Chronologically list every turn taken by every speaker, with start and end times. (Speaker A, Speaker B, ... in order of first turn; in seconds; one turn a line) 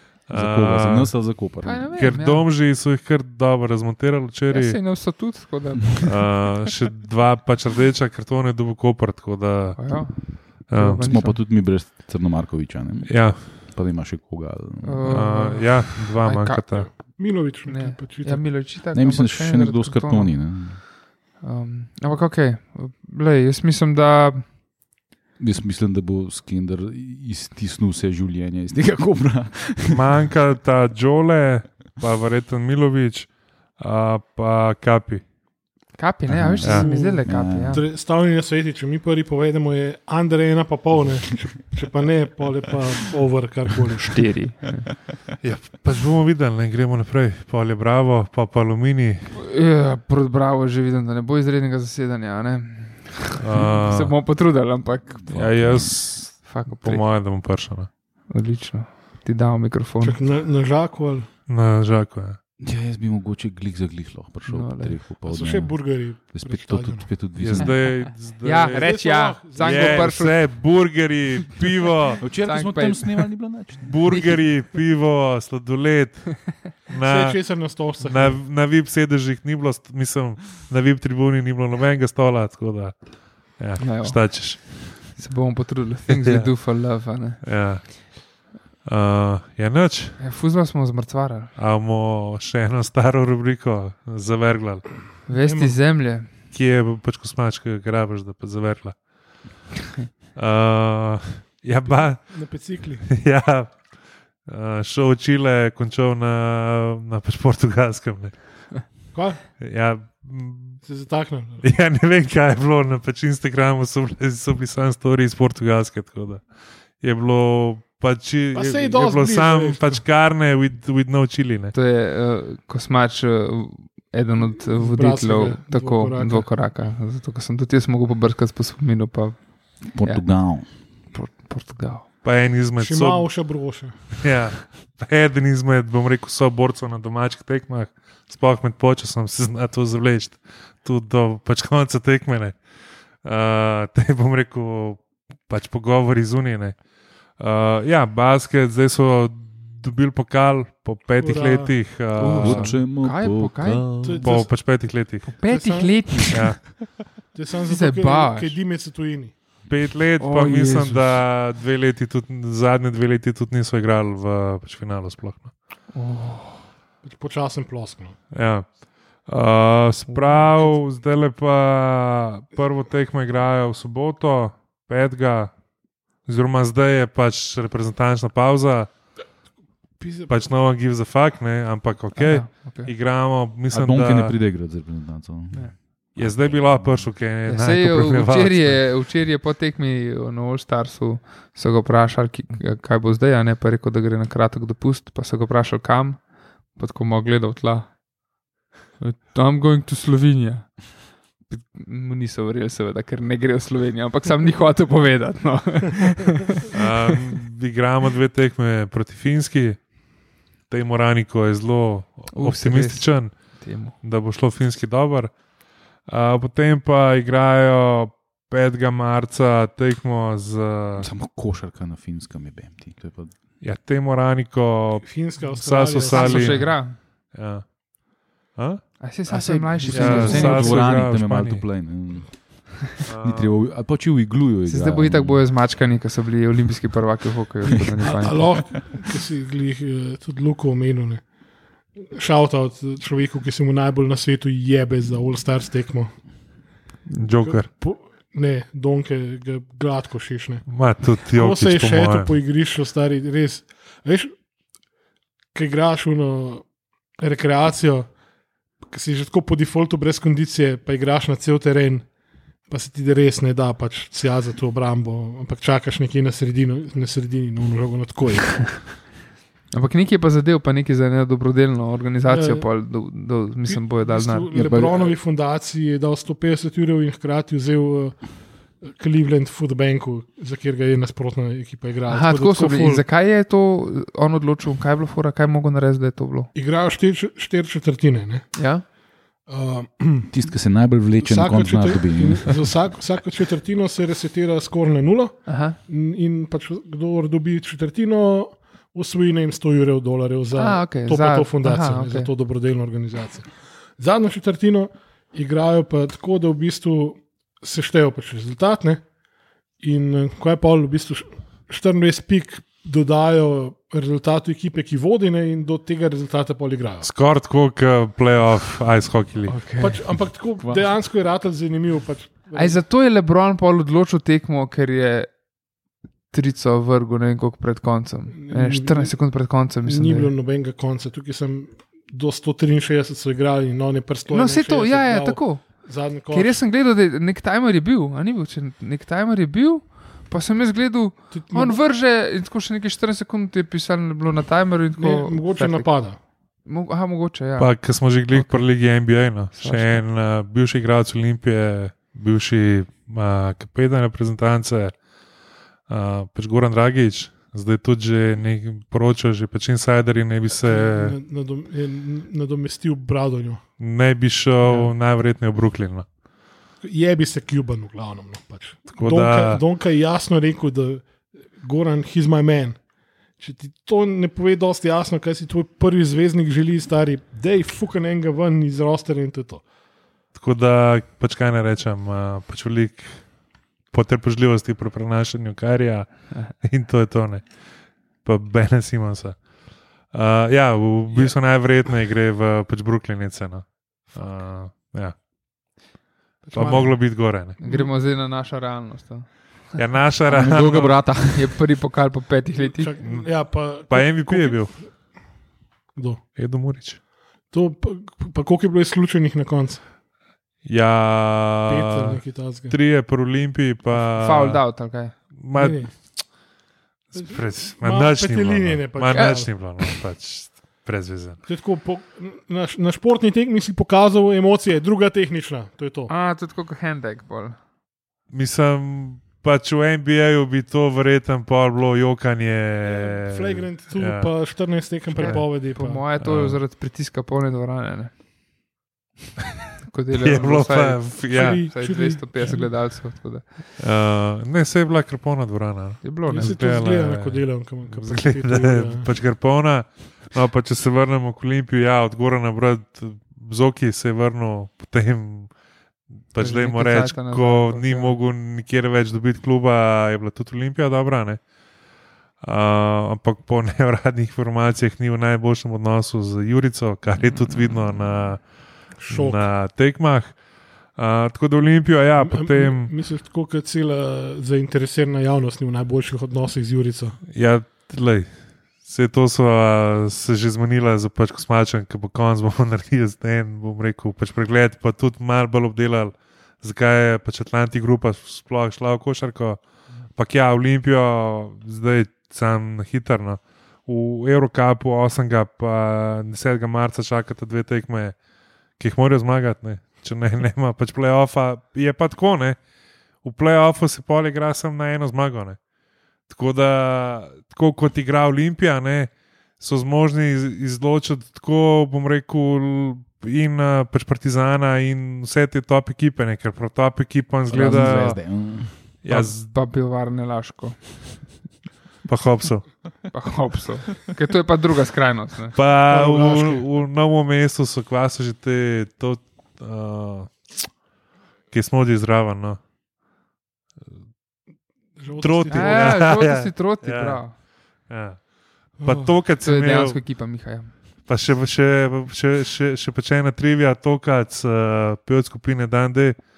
Speaker A: 0.3-1.3
Speaker B: 0.3-1.9
Speaker C: 1.6-2.5
Speaker A: 1.9-4.8
Speaker C: 4.5-6.3
Speaker A: 6.0-11.0
Speaker C: 9.8-11.4
Speaker B: 11.0-15.5
Speaker A: 13.1-13.5
Speaker C: 14.8-17.1
Speaker A: 15.1-16.9
Speaker D: 17.1-18.4
Speaker C: 17.7-20.5
Speaker B: 18.9-20.8
Speaker C: 21.4-24.4
Speaker B: 25.4-30.0
Speaker A: 29.9-35.2
Speaker C: 36.0-37.8
Speaker B: 36.3-37.8
Speaker A: 36.6-36.9
Speaker D: 36.7-44.2
Speaker C: 44.1-44.9
Speaker A: 45.4-49.3
Speaker C: 49.4-55.4
Speaker A: 53.4-54.1
Speaker B: 55.2-55.9
Speaker A: 55.3-57.9
Speaker C: 56.4-57.0
Speaker C: 58.3-60.2
Speaker D: 60.0-61.3
Speaker A: 61.5-62.4
Speaker B: 62.6-67.8
Speaker C: 64.5-65.0
Speaker D: 65.2-67.1
Speaker A: 67.3-68.9
Speaker C: 67.5-70.4
Speaker D: 68.7-70.1
Speaker A: 69.6-72.2
Speaker B: 72.2-74.0
Speaker C: 72.4-73.3
Speaker A: 73.8-82.9
Speaker C: 74.1-74.3
Speaker D: 77.0-78.4
Speaker A: 83.6-85.2
Speaker C: 83.8-87.4
Speaker A: 86.1-86.5
Speaker A: 87.4-88.3
Speaker A: 88.8-90.2
Speaker C: 90.2-91.5
Speaker A: 91.5-95.0
Speaker C: 95.3-96.3
Speaker D: 95.3-95.8
Speaker A: 96.5-99.0
Speaker A: 100.3-102.4
Speaker D: 102.3-103.0
Speaker A: 103.1-103.8
Speaker A: 104.5-108.4
Speaker D: 109.1-109.4
Speaker A: 109.6-110.8
Speaker D: 110.8-111.6
Speaker A: 111.6-116.4
Speaker A: 117.0-121.7
Speaker D: 118.5-120.0
Speaker C: 121.7-130.2
Speaker D: 124.6-126.5
Speaker B: 129.9-130.7
Speaker C: 131.1-132.1
Speaker A: 132.2-133.3
Speaker D: 132.8-134.0
Speaker A: 134.1-142.6
Speaker A: 143.2-146.8
Speaker A: 147.4-152.8
Speaker D: 151.2-151.8
Speaker C: 152.2-154.0
Speaker B: 152.3-154.2
Speaker D: 154.0-154.5
Speaker A: 154.2-155.3
Speaker C: 155.2-156.8
Speaker D: 155.5-156.0
Speaker A: 156.3-156.6
Speaker D: 157.3-159.3
Speaker C: 157.7-158.6
Speaker A: 159.7-165.5
Speaker C: 160.2-161.1
Speaker C: 165.9-166.6
Speaker D: 167.0-168.2
Speaker A: 168.3-168.7
Speaker A: 169.2-175.5
Speaker C: 170.2-170.5
Speaker A: 176.2-178.9
Speaker D: 180.0-180.3
Speaker A: 180.3-184.3
Speaker C: 182.2-182.9
Speaker B: 183.7-187.1
Speaker A: 186.1-188.8
Speaker C: 187.5-197.9
Speaker C: 199.0-206.7
Speaker A: 206.7-209.8
Speaker A: 210.7-213.3
Speaker C: 212.3-213.9
Speaker A: 214.0-215.3
Speaker A: 216.1-221.1
Speaker B: 221.0-223.3
Speaker A: 223.6-227.7
Speaker D: 225.0-226.7
Speaker C: 226.1-227.0
Speaker A: 228.5-228.8
Speaker C: 229.0-231.0
Speaker B: 229.3-235.4
Speaker A: 229.9-231.6
Speaker A: 233.1-233.6
Speaker C: 234.7-238.7
Speaker D: 238.0-241.2
Speaker D: 242.0-246.1
Speaker A: 247.1-247.7
Speaker D: 247.4-250.7
Speaker A: 250.7-252.3
Speaker D: 251.3-254.3
Speaker D: 255.5-256.6
Speaker D: 257.2-258.1
Speaker D: 258.9-262.1
Speaker D: 262.7-268.8
Speaker C: 269.7-274.5
Speaker D: 272.2-272.6
Speaker D: 273.6-278.2
Speaker B: 274.5-275.1
Speaker D: 278.8-283.0
Speaker C: 282.1-286.5
Speaker D: 286.5-288.5
Speaker C: 288.5-288.8
Speaker D: 289.5-290.3
Speaker B: 290.3-292.7
Speaker D: 291.2-309.0
Speaker C: 295.4-295.8
Speaker C: 300.6-302.3
Speaker D: 309.8-317.1
Speaker A: 317.0-319.6
Speaker C: 319.5-320.0
Speaker D: 319.8-322.8
Speaker C: 322.5-325.3
Speaker C: 326.3-330.3
Speaker D: 328.3-329.1
Speaker D: 329.8-336.6
Speaker C: 334.3-345.9
Speaker D: 341.3-341.8
Speaker D: 344.9-346.2
Speaker C: 346.6-347.7
Speaker A: 347.6-354.9
Speaker C: 348.3-348.6
Speaker C: 349.6-350.0
Speaker A: 355.9-361.1
Speaker D: 360.6-363.6
Speaker A: 363.8-366.1
Speaker C: 364.6-364.9
Speaker D: 366.8-372.8
Speaker A: 368.9-369.6
Speaker D: 373.4-379.6
Speaker A: 380.3-383.2
Speaker A: 383.9-387.4
Speaker A: 388.2-389.4
Speaker A: 390.1-395.1
Speaker D: 396.4-397.0
Speaker A: 396.5-397.6
Speaker D: 397.6-397.9
Speaker C: 397.6-399.3
Speaker A: 399.7-401.1
Speaker B: 400.3-401.6
Speaker C: 401.2-402.9
Speaker D: 402.6-404.9
Speaker A: 403.9-404.8
Speaker D: 405.9-406.2
Speaker A: 406.4-407.0
Speaker D: 407.5-409.8
Speaker A: 410.6-414.6
Speaker D: 411.7-412.8
Speaker C: 414.1-415.1
Speaker A: 415.4-416.0
Speaker D: 415.5-415.9
Speaker A: 417.1-421.4
Speaker D: 417.1-419.5
Speaker C: 419.1-420.0
Speaker D: 421.4-426.1
Speaker C: 426.1-427.6
Speaker A: 428.3-434.4
Speaker D: 432.8-436.0
Speaker C: 435.1-438.1
Speaker A: 435.2-435.6
Speaker A: 436.2-436.6
Speaker C: 439.8-443.7
Speaker A: 440.1-441.6
Speaker D: 441.3-442.7
Speaker A: 443.8-455.5
Speaker C: 446.0-446.6
Speaker D: 446.3-449.1
Speaker A: 456.3-461.4
Speaker C: 456.4-458.1
Speaker A: 462.4-468.4
Speaker D: 469.0-469.4
Speaker A: 469.1-470.4
Speaker A: 470.9-472.9
Speaker D: 472.2-477.2
Speaker A: 477.3-478.3
Speaker A: 478.8-489.6
Speaker A: 490.1-498.1
Speaker A: 498.8-502.6
Speaker A: 503.2-505.6
Speaker A: 506.3-518.4
Speaker B: 517.5-518.7
Speaker A: 519.0-519.5
Speaker C: 519.1-521.0
Speaker A: 522.0-522.7
Speaker C: 523.1-525.5
Speaker A: 525.5-530.5
Speaker D: 525.9-526.6
Speaker A: 531.5-532.6
Speaker D: 535.0-536.0
Speaker A: 535.2-537.2
Speaker C: 535.5-537.3
Speaker A: 537.9-538.2
Speaker D: 538.8-539.1
Speaker A: 538.8-540.0
Speaker C: 539.4-540.7
Speaker A: 541.1-546.2